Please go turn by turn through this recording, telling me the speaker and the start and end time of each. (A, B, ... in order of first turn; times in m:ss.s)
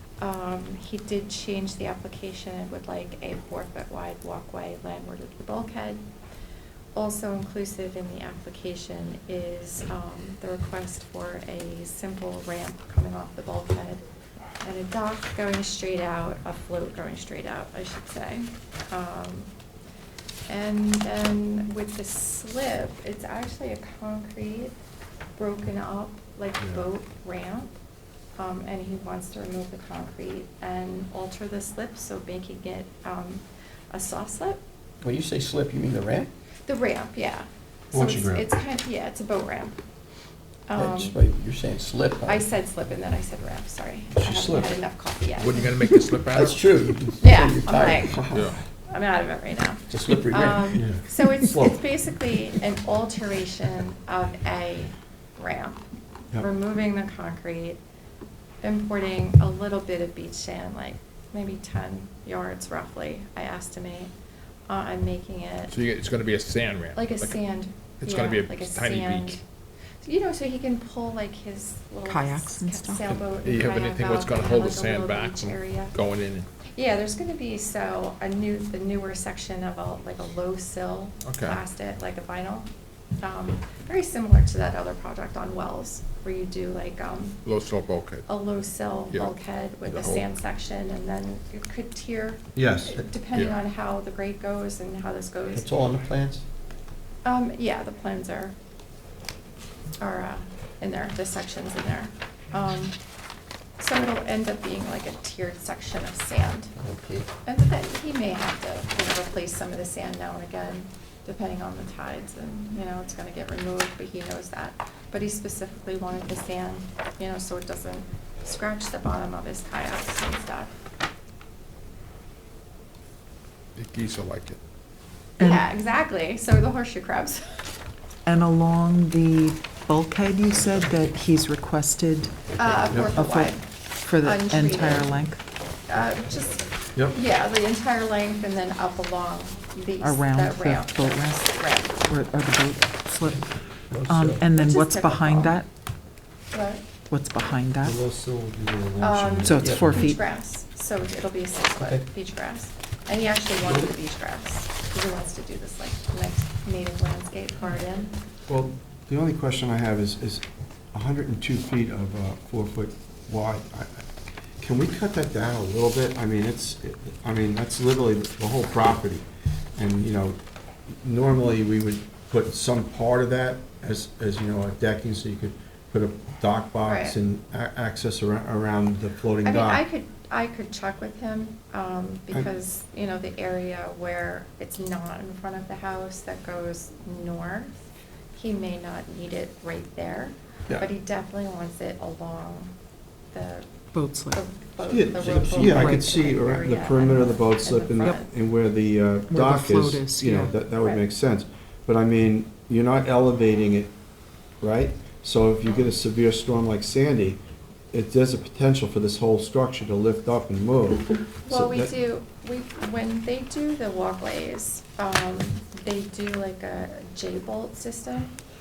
0:00.2-0:06.0 A
0:07.0-0:14.0 A
0:14.6-0:19.5 A
0:20.5-0:24.8 A
0:25.4-0:27.8 A
0:26.6-0:26.8 B
0:28.4-0:34.6 A
0:35.0-0:36.3 C
0:36.7-0:39.8 A
0:37.9-0:38.5 B
0:40.7-0:41.2 A
0:40.8-0:42.4 C
0:42.3-0:45.7 A
0:44.2-0:44.8 B
0:45.4-0:46.6 D
0:46.4-0:48.3 C
0:47.2-0:55.8 A
0:48.0-0:48.6 B
0:48.3-0:48.6 D
0:49.9-0:51.8 C
0:50.7-0:51.0 B
0:56.4-0:57.8 A
0:58.6-1:04.1 A
1:04.7-1:05.8 A
1:05.7-1:07.4 D
1:06.9-1:09.4 A
1:08.0-1:09.4 D
1:10.0-1:15.9 A
1:12.0-1:13.0 E
1:13.1-1:16.5 D
1:16.6-1:22.7 A
1:21.2-1:21.6 D
1:23.2-1:27.4 A
1:27.4-1:28.2 D
1:28.3-1:35.7 A
1:29.1-1:30.2 D
1:32.6-1:33.0 B
1:35.5-1:36.4 C
1:37.2-1:38.6 A
1:40.0-1:43.0 A
1:43.8-1:46.7 A
1:46.8-1:47.3 C
1:47.4-2:00.7 A
2:03.8-2:04.6 D
2:05.4-2:05.7 E
2:05.4-2:07.5 A
2:08.2-2:12.4 E
2:12.6-2:13.6 A
2:13.1-2:15.4 E
2:14.2-2:15.2 A
2:15.9-2:22.0 A
2:20.0-2:23.5 E
2:23.9-2:24.4 C
2:24.0-2:25.7 E
2:24.5-2:25.6 A
2:26.5-2:26.8 A
2:27.1-2:28.0 E
2:27.8-2:30.1 B
2:29.0-2:38.2 A
2:29.4-2:30.2 E
2:29.6-2:29.8 C
2:31.8-2:32.0 C
2:33.6-2:33.9 C
2:38.5-2:44.1 B
2:44.6-2:50.4 B
2:50.9-2:59.8 B
2:56.8-2:57.2 A
2:59.4-3:07.8 A
3:08.3-3:12.7 A
3:13.3-3:13.7 A
3:13.9-3:14.4 E
3:14.3-3:18.3 A
3:14.8-3:23.9 B
3:15.6-3:16.1 E
3:19.3-3:20.5 E
3:24.6-3:27.4 B
3:27.9-3:31.9 B
3:31.5-3:38.3 A